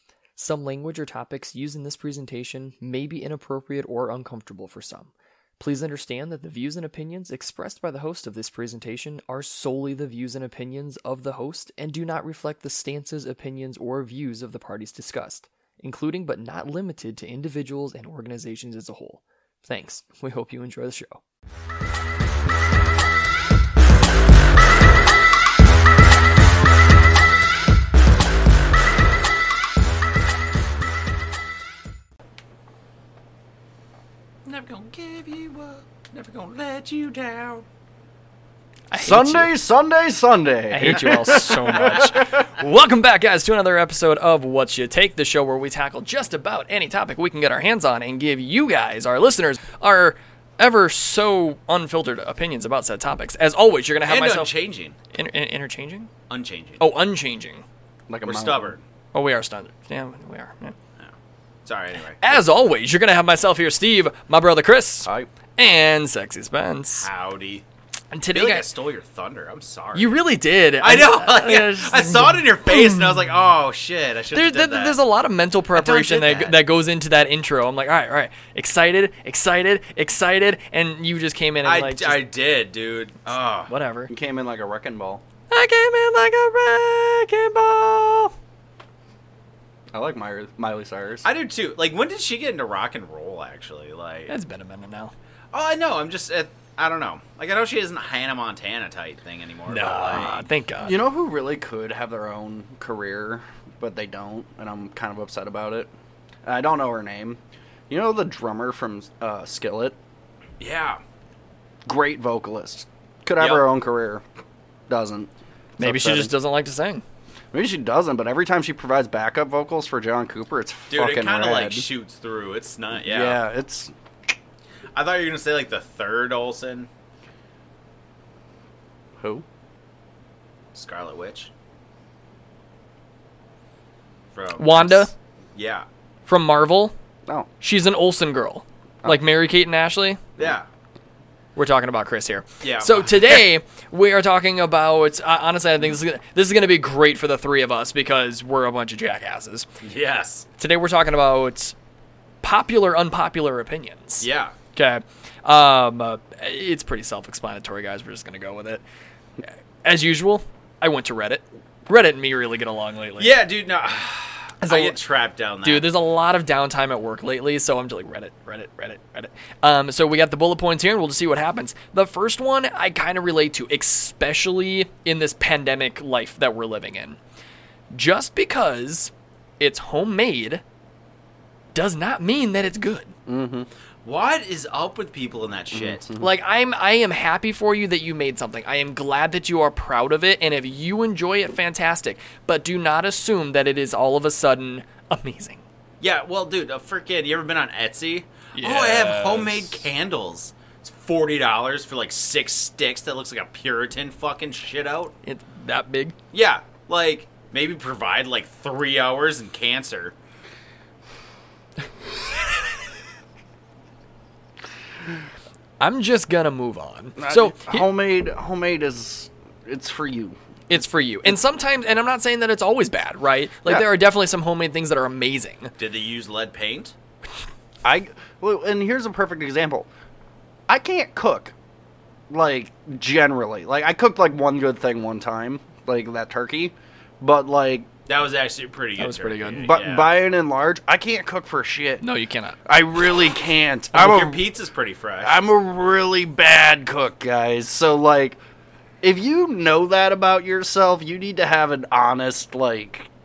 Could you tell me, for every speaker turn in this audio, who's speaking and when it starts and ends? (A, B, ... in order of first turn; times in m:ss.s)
0:00.4-0:21.2 A
0:34.4-0:37.6 B
0:38.9-0:39.6 A
0:38.9-0:42.4 C
0:40.7-0:54.5 A
0:54.1-0:55.0 B
0:55.1-0:56.1 A
0:56.3-0:56.8 B
0:56.8-0:57.6 A
0:58.1-0:58.7 C
0:58.3-0:58.8 B
0:59.1-1:00.8 A
1:01.6-1:02.4 B
1:02.2-1:07.1 A
1:07.0-1:07.6 B
1:08.1-1:08.7 A
1:08.3-1:10.2 B
1:10.0-1:13.3 A
1:10.8-1:15.0 B
1:14.3-1:22.3 A
1:15.8-1:16.6 B
1:21.6-1:23.7 B
1:23.7-1:24.1 A
1:24.1-1:25.2 C
1:25.5-1:28.3 A
1:29.9-1:31.2 C
1:31.2-1:34.3 B
1:34.3-1:35.1 A
1:35.5-1:40.4 B
1:39.7-1:41.0 A
1:40.8-1:45.9 C
1:46.5-1:50.0 C
1:50.6-1:51.0 B
1:51.8-1:54.2 C
1:53.4-1:53.6 B
1:54.9-1:56.4 C
1:55.8-1:57.0 A
1:57.5-2:01.8 C
2:00.9-2:03.4 B
2:03.0-2:03.9 C
2:05.0-2:06.9 B
2:09.2-2:09.4 C
2:10.7-2:11.5 B
2:14.3-2:15.9 B
2:14.6-2:15.1 A
2:16.3-2:17.0 A
2:17.6-2:20.2 A
2:20.4-2:20.7 B
2:21.6-2:29.7 A
2:22.6-2:23.4 B
2:29.8-2:30.5 B
2:30.6-2:31.8 A
2:32.4-2:38.8 A
2:34.2-2:34.5 B
2:39.8-2:43.4 A
2:43.2-2:46.0 B
2:44.6-2:45.0 A
2:45.6-2:57.2 A
2:57.9-3:00.6 A
3:01.8-3:03.1 A
3:03.3-3:03.7 C
3:04.0-3:06.1 B
3:05.7-3:06.2 C
3:06.2-3:15.6 A
3:16.0-3:25.1 B
3:18.6-3:19.8 A
3:25.2-3:26.2 A
3:26.3-3:30.1 B
3:35.8-3:37.9 A
3:37.2-3:41.4 C
3:40.7-3:45.7 A
3:45.8-3:46.9 B
3:47.8-3:49.9 C
3:50.7-3:51.5 C
3:52.3-3:57.9 C
3:58.1-4:00.1 B
3:59.0-3:59.8 A
3:59.6-4:02.0 C
4:02.0-4:02.6 A
4:02.7-4:04.4 C
4:03.9-4:05.4 B
4:05.2-4:08.4 C
4:09.0-4:13.1 C